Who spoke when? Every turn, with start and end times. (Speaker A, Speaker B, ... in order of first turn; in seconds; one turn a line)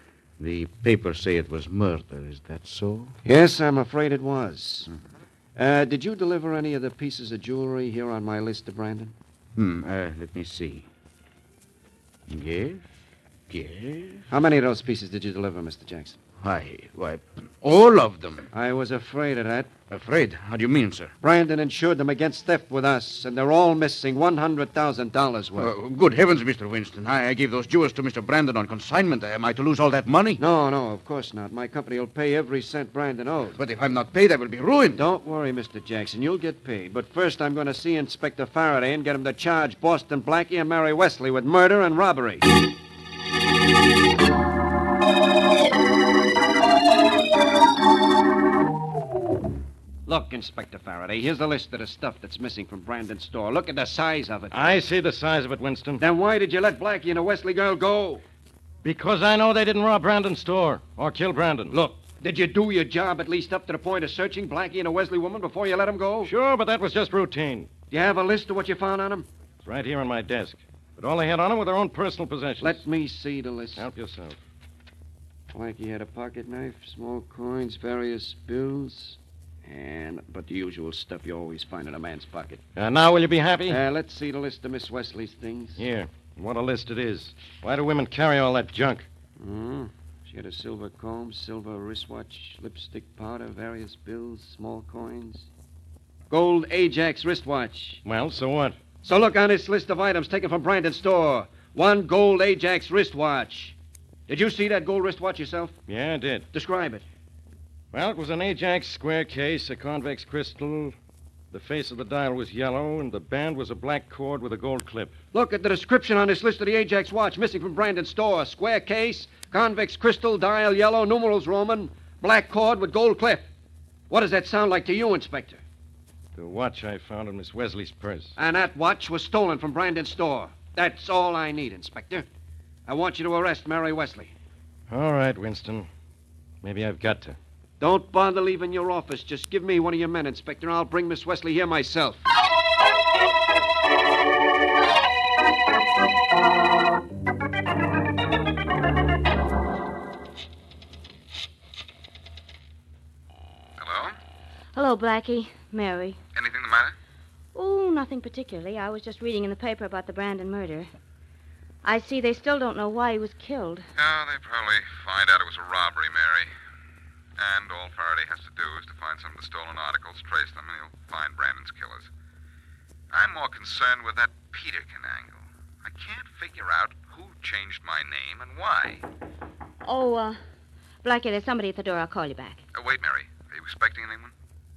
Speaker A: 0.4-3.1
Speaker B: 3.2-4.9
Speaker B: 5.5-9.1
Speaker A: 9.6-10.8
Speaker A: 12.3-12.8
Speaker A: 13.5-14.2
Speaker B: 14.3-16.2
Speaker A: 16.4-18.5
Speaker B: 18.5-19.7
Speaker A: 19.9-21.1
Speaker B: 21.2-25.7
Speaker A: 25.6-30.4
Speaker B: 30.4-33.6
Speaker A: 33.5-35.0
Speaker B: 34.9-42.5
Speaker B: 50.1-54.7
Speaker C: 54.5-56.0
Speaker B: 56.0-58.2
Speaker C: 58.8-61.7
Speaker B: 61.7-66.3
Speaker C: 66.2-67.7
Speaker B: 67.9-69.3
Speaker C: 69.6-72.8
Speaker B: 72.6-73.9
Speaker C: 73.8-74.3
Speaker B: 75.5-82.6
Speaker C: 82.8-83.8
Speaker B: 83.7-85.8
Speaker C: 85.8-89.0
Speaker B: 89.4-95.5
Speaker B: 96.3-98.0
Speaker C: 98.0-98.8
Speaker B: 99.0-103.7
Speaker B: 104.3-105.8
Speaker C: 105.9-106.5
Speaker B: 106.5-107.0
Speaker C: 107.9-110.9
Speaker C: 111.5-115.1
Speaker B: 115.3-123.5
Speaker B: 124.1-125.6
Speaker C: 126.3-128.3
Speaker B: 128.4-132.3
Speaker B: 132.9-134.3
Speaker C: 134.9-135.9
Speaker C: 136.6-137.4
Speaker B: 137.8-142.2
Speaker D: 153.8-154.1
Speaker E: 154.7-156.2
Speaker D: 156.3-156.9
Speaker E: 157.5-160.9
Speaker E: 161.8-163.8
Speaker D: 163.9-166.5
Speaker D: 167.4-172.1
Speaker D: 173.1-179.0
Speaker E: 179.8-180.4
Speaker E: 181.0-182.6
Speaker D: 182.7-184.3